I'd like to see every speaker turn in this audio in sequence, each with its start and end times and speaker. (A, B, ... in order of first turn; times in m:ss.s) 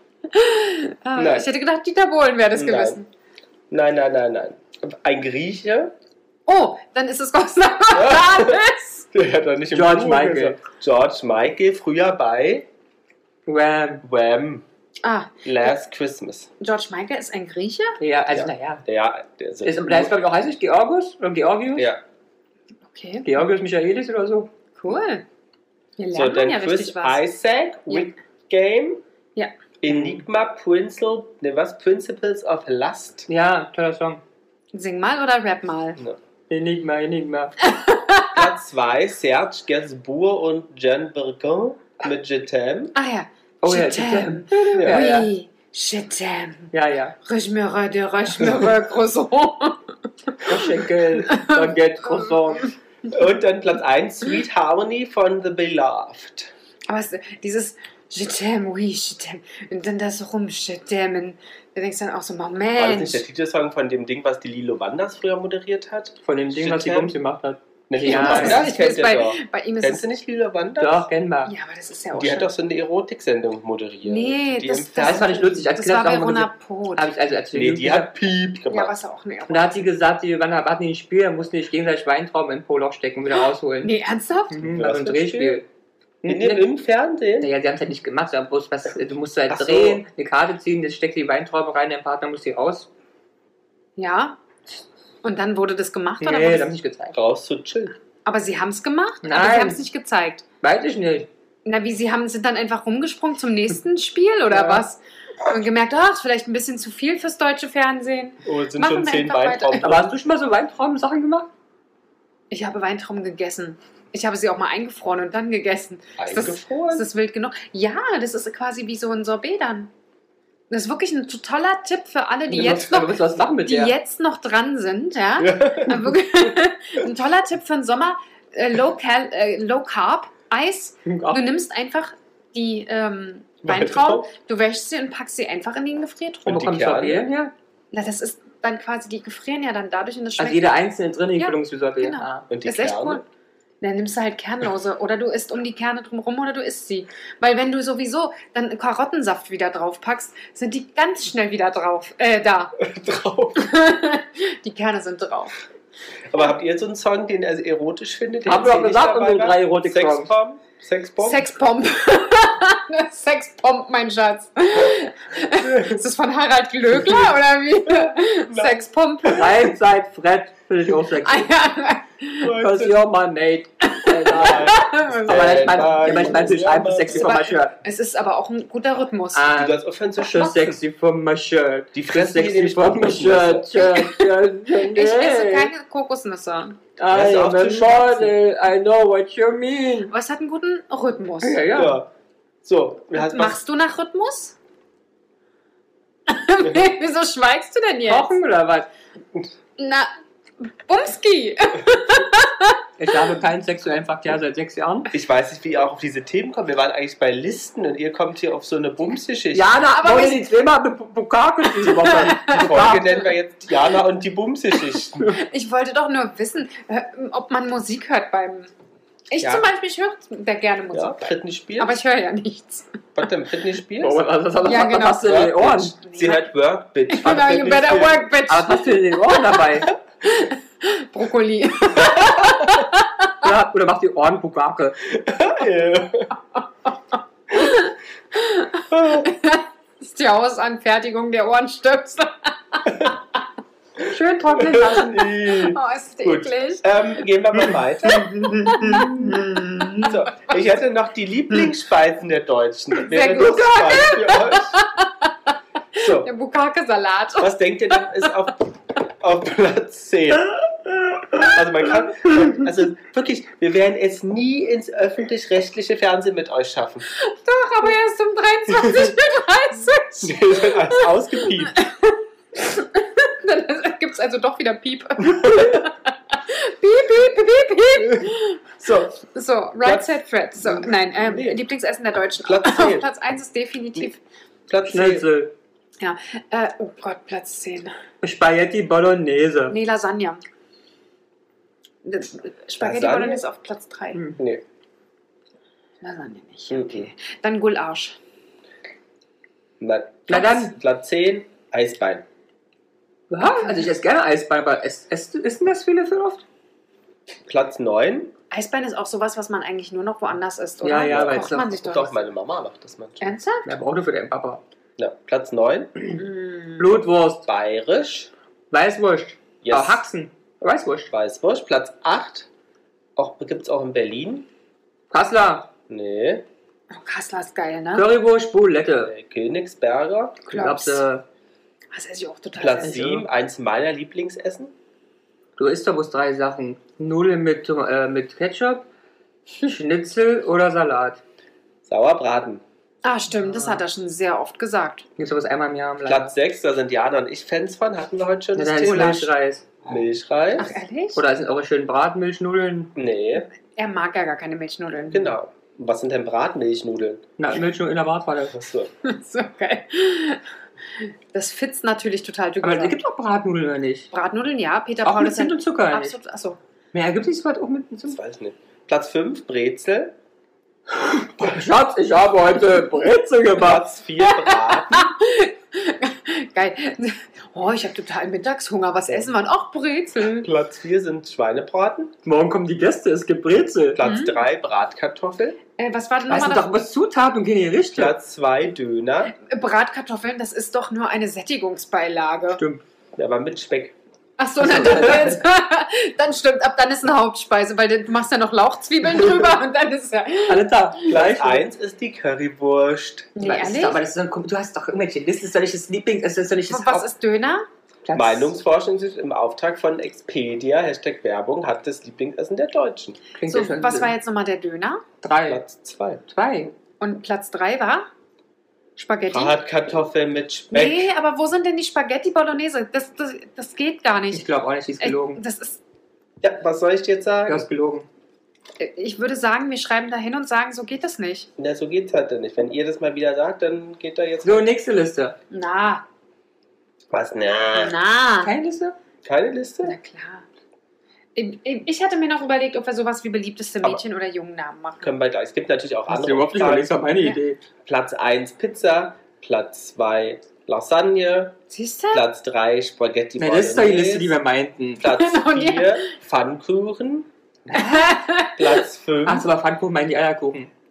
0:00.3-0:03.1 A
0:01.2-0:01.5 B
0:02.5-0:03.0 B
0:03.7-0:05.9 B
0:06.4-0:09.1 A
0:07.9-0:08.6 B
0:09.1-0:12.6 B
0:09.7-0:10.6 C
0:13.4-0:14.0 C
0:14.0-0:14.6 B
0:15.0-0:15.7 A
0:15.4-0:16.5 B
0:16.6-0:18.0 A
0:18.0-0:18.8 C
0:18.3-0:20.1 B
0:19.6-0:21.9 C
0:22.9-0:23.3 A
0:23.2-0:24.5 C
0:24.8-0:25.2 A
0:26.0-0:27.2 A
0:26.1-0:29.0 B
0:29.8-0:33.3 B
0:29.9-0:30.2 C
0:33.3-0:34.2 C
0:34.7-0:36.0 A
0:36.5-0:37.5 C
0:37.6-0:38.4 A
0:38.3-0:42.9 B
0:42.9-0:46.7 A
0:43.6-0:45.3 C
0:44.7-0:45.0 B
0:46.7-0:47.2 C
0:47.2-0:50.5 A
0:50.4-0:52.7 C
0:51.2-0:52.7 A
0:53.1-0:56.5 B
0:56.9-1:03.2 A
1:02.8-1:07.2 B
1:06.2-1:08.7 C
1:07.9-1:11.1 B
1:08.0-1:10.0 A
1:10.8-1:11.5 C
1:11.4-1:12.5 A
1:12.2-1:15.2 B
1:14.0-1:17.1 A
1:15.0-1:18.1 C
1:17.5-1:18.9 B
1:18.7-1:19.9 A
1:19.5-1:23.9 C
1:23.8-1:24.6 A
1:24.5-1:25.6 C
1:24.6-1:25.6 B
1:26.2-1:26.6 C
1:26.2-1:27.5 B
1:27.4-1:32.9 C
1:29.5-1:30.0 B
1:34.0-1:34.4 A
1:35.2-1:36.7 A
1:36.2-1:37.1 C
1:37.1-1:37.9 B
1:38.2-1:40.4 A
1:39.2-1:39.8 C
1:40.6-1:41.3 C
1:41.6-1:49.9 A
1:44.5-1:44.8 C
1:48.4-1:50.1 B
1:49.8-1:51.5 C
1:52.5-1:59.9 A
1:56.2-1:57.0 B
2:00.7-2:16.6 A
2:02.5-2:04.0 C
2:05.4-2:06.2 B
2:11.0-2:11.4 C
2:13.6-2:14.3 B
2:16.4-2:17.2 B
2:16.5-2:17.5 C
2:17.9-2:20.7 A
2:20.4-2:22.5 C
2:21.4-2:23.2 A
2:22.5-2:23.2 B
2:23.8-2:32.7 A
2:32.8-2:33.7 B
2:33.6-2:35.5 A
2:36.3-2:41.4 B
2:38.4-2:40.3 C
2:41.2-2:49.6 A
2:45.6-2:46.0 B
2:47.9-2:49.4 B
2:49.3-2:51.5 C
2:51.2-2:52.5 A
2:52.4-2:53.0 B
2:52.5-2:57.7 C
2:53.8-2:56.4 A
2:54.3-2:57.3 B
2:57.1-2:59.6 A
2:59.3-3:05.7 C
2:59.5-3:00.8 B
3:01.9-3:03.7 B
3:03.8-3:06.8 A
3:07.0-3:10.1 C
3:07.1-3:08.3 B
3:10.1-3:11.6 A
3:11.4-3:12.0 C
3:11.7-3:12.1 B
3:12.6-3:13.6 B
3:13.1-3:14.6 A
3:16.3-3:18.3 A
3:18.1-3:18.9 C
3:19.8-3:20.1 A
3:20.6-3:22.8 A
3:23.0-3:25.1 C
3:25.1-3:29.7 B
3:29.5-3:33.2 C
3:29.9-3:30.5 A
3:31.8-3:33.1 A
3:31.8-3:35.3 B
3:35.2-3:38.7 A
3:39.3-3:43.0 A
3:39.4-3:39.6 B
3:40.9-3:41.9 B
3:43.1-3:44.2 B
3:44.0-3:45.9 C
3:44.6-3:45.4 A
3:45.1-3:48.3 B
3:46.0-3:46.5 A
3:47.1-3:53.3 A
3:48.5-3:49.9 C
3:53.4-3:55.0 C
3:55.1-3:56.3 B
3:57.5-4:03.1 A
3:58.9-3:59.3 B
4:04.0-4:05.3 C
4:04.5-4:09.1 B
4:05.5-4:06.8 A
4:08.0-4:10.2 C
4:08.4-4:09.2 A
4:10.0-4:14.8 B
4:13.0-4:15.3 A
4:16.0-4:16.3 B
4:16.0-4:18.3 A
4:17.4-4:20.6 B
4:21.3-4:27.0 B
4:27.1-4:38.6 A
4:28.8-4:29.1 B
4:30.2-4:31.8 B
4:35.2-4:35.8 B
4:38.0-4:39.2 B
4:39.2-4:44.2 A
4:39.8-4:41.6 B
4:42.4-4:43.1 B
4:44.7-4:45.3 B
4:44.9-4:45.5 C
4:46.0-4:47.9 A
4:48.2-4:49.8 C
4:49.7-4:50.4 A
4:52.0-4:54.2 A
4:52.8-4:53.4 B
4:54.1-4:54.4 C
4:54.4-4:54.6 B
4:56.0-4:58.2 A
4:56.7-4:57.1 B
4:59.8-5:02.2 B
5:00.3-5:00.7 C
5:03.3-5:06.4 C
5:03.4-5:03.9 A
5:07.4-5:08.3 B
5:08.5-5:12.2 A
5:10.8-5:11.8 C
5:11.1-5:13.3 B
5:13.2-5:13.7 A
5:13.6-5:14.6 C
5:15.0-5:16.0 B
5:16.1-5:16.8 A
5:16.8-5:17.4 C
5:17.4-5:18.3 B
5:18.7-5:21.1 C
5:19.6-5:20.0 B
5:21.1-5:22.5 B
5:23.2-5:24.5 B
5:25.1-5:25.7 C
5:25.9-5:26.4 B
5:26.9-5:28.1 A
5:27.9-5:29.1 C
5:29.0-5:30.4 B
5:30.5-5:31.0 A
5:30.5-5:31.2 C
5:31.9-5:33.0 A
5:32.6-5:34.7 B
5:32.8-5:33.2 C
5:35.6-5:38.9 C
5:39.6-5:41.2 C
5:41.8-5:42.6 B
5:43.0-5:45.1 A
5:43.3-5:43.8 C
5:45.2-5:46.3 C
5:46.0-5:49.3 B
5:48.6-5:49.6 C
5:48.8-5:49.2 A
5:49.8-5:50.8 B
5:50.6-5:51.2 A
5:51.1-5:52.9 C
5:53.0-5:53.5 B
5:53.6-5:55.3 A
5:55.1-5:57.3 B
5:57.4-5:58.6 C
5:58.5-5:58.9 B
5:59.0-6:00.4 A
6:01.0-6:03.0 A
6:02.6-6:04.1 C
6:04.1-6:06.6 A
6:05.0-6:06.1 C
6:06.9-6:08.2 C
6:08.1-6:10.1 B
6:10.9-6:13.8 C
6:13.5-6:15.1 B
6:14.2-6:20.5 A
6:20.4-6:22.1 B
6:22.2-6:24.0 C
6:23.9-6:25.6 B
6:24.0-6:24.4 A
6:25.8-6:26.7 A
6:26.3-6:28.1 C
6:27.9-6:29.3 B
6:29.3-6:32.6 A
6:32.5-6:32.8 C
6:33.2-6:33.9 B
6:34.4-6:40.8 A
6:34.6-6:35.4 C
6:40.5-6:41.6 C
6:41.1-6:43.3 B
6:43.4-6:44.0 A
6:43.4-6:47.1 C
6:46.7-6:47.7 A
6:48.0-6:48.5 C
6:48.1-6:53.2 B
6:53.4-6:54.1 C
6:53.5-6:55.0 A
6:55.2-6:55.6 C
6:55.4-6:56.2 B
6:56.3-6:56.7 C
6:57.0-6:58.1 A
6:59.0-6:59.6 A
6:59.3-7:01.1 B
7:00.7-7:04.5 A
7:04.3-7:05.4 C
7:05.0-7:05.8 A
7:06.4-7:07.7 B
7:07.5-7:08.1 C
7:08.8-7:11.5 A
7:11.6-7:14.7 B
7:14.4-7:15.4 C
7:15.5-7:16.0 A
7:17.1-7:18.0 B
7:17.7-7:18.5 A
7:18.4-7:19.0 C
7:19.2-7:20.0 B
7:19.8-7:20.4 A
7:21.3-7:25.1 A
7:25.0-7:26.9 B
7:26.1-7:27.6 C
7:27.8-7:31.6 B
7:31.7-7:32.2 A
7:32.1-7:34.4 B
7:33.4-7:35.0 C
7:35.0-7:37.3 B
7:35.0-7:36.1 A
7:37.7-7:38.7 A
7:38.6-7:39.5 B
7:39.2-7:40.7 C